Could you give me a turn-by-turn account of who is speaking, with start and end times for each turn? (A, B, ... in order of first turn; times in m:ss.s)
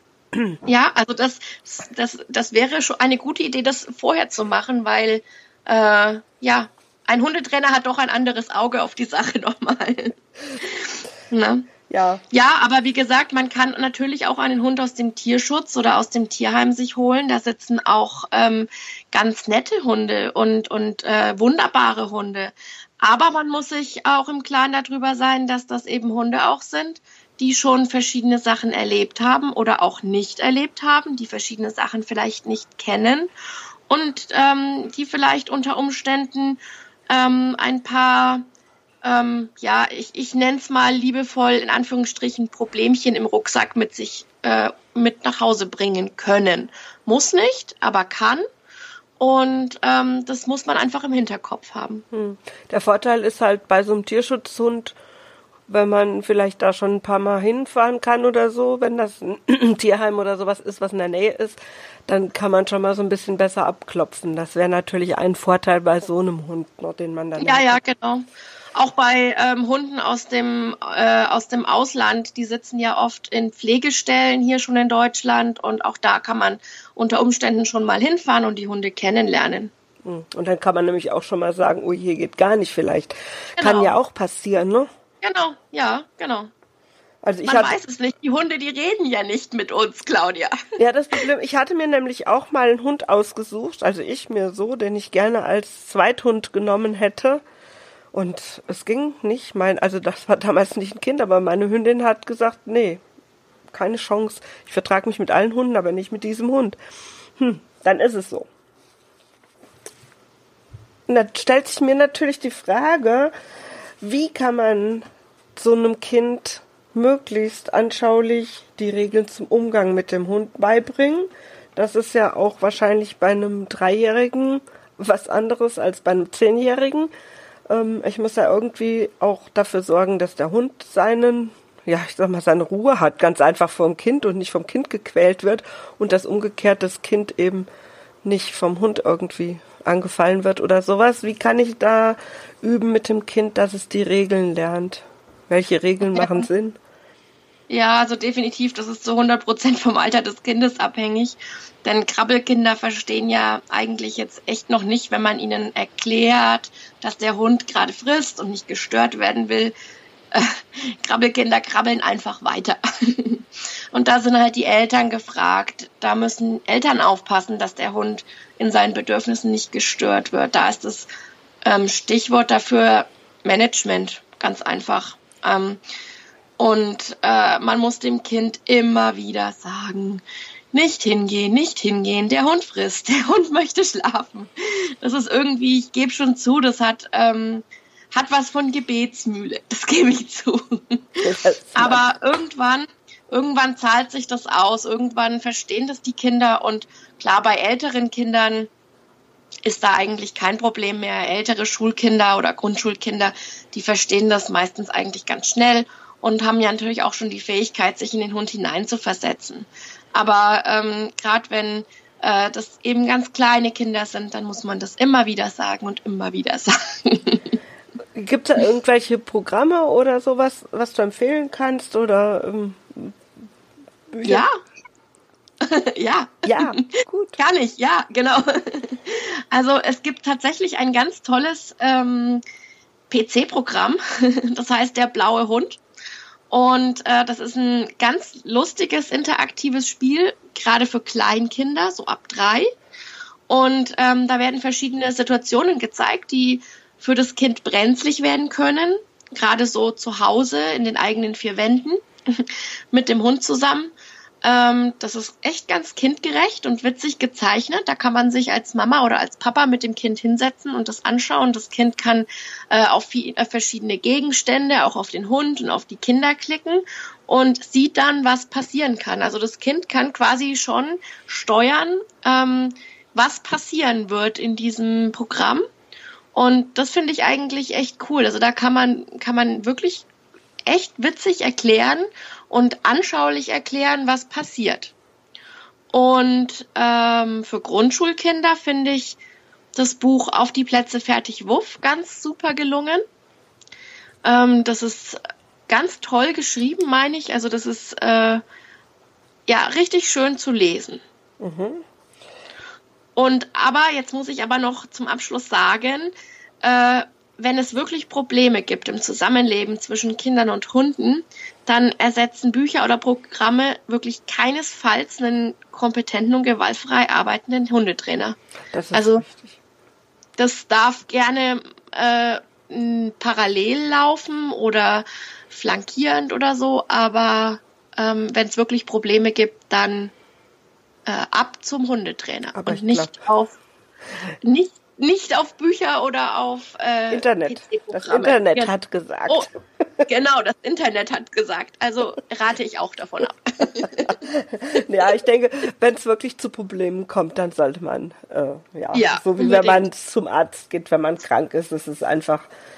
0:00.6-0:11.7 A
0:11.9-0:12.2 B
0:12.3-0:33.3 A
0:33.9-0:38.4 A
0:39.0-0:48.4 A
0:49.2-0:52.0 A
0:52.1-0:55.0 B
0:55.7-1:07.8 B
1:07.4-1:19.7 A
1:20.0-1:24.9 B
1:23.6-1:23.9 A
1:25.2-1:26.5 A
1:27.2-1:27.7 B
1:27.4-1:30.5 A
1:30.8-1:37.4 B
1:38.1-1:43.0 B
1:43.7-1:46.8 B
1:47.4-1:48.5 B
1:51.1-1:53.3 B
1:54.0-2:07.1 B
2:07.7-2:17.7 B
2:18.2-2:26.8 B
2:26.2-2:26.4 A
2:27.7-2:39.7 A
2:40.3-2:51.1 A
2:51.6-2:55.8 A
2:56.6-3:11.2 A
3:11.2-3:12.0 B
3:11.7-3:18.7 A
3:19.6-3:37.6 A
3:38.2-3:43.2 B
3:44.1-3:44.4 B
3:44.2-3:44.5 A
3:45.6-3:46.8 A
3:46.4-3:47.4 B
3:47.4-3:52.4 A
3:53.1-3:55.8 A
3:56.5-4:02.7 A
4:03.5-4:35.6 A
4:36.3-4:40.0 A
4:40.7-4:44.9 A
4:45.9-4:49.2 A
4:49.7-4:53.0 A
4:54.2-4:58.4 A
4:59.5-5:01.0 A
5:01.4-5:01.8 B
5:03.2-5:06.1 A
5:06.6-5:18.4 A
5:18.7-5:19.6 B
5:18.9-5:19.2 A
5:20.4-5:30.1 A
5:31.0-5:33.6 A
5:32.5-5:33.2 B
5:34.4-5:38.7 A
5:37.1-5:40.0 B
5:40.1-5:44.1 A
5:44.1-5:52.5 B
5:48.9-5:49.8 A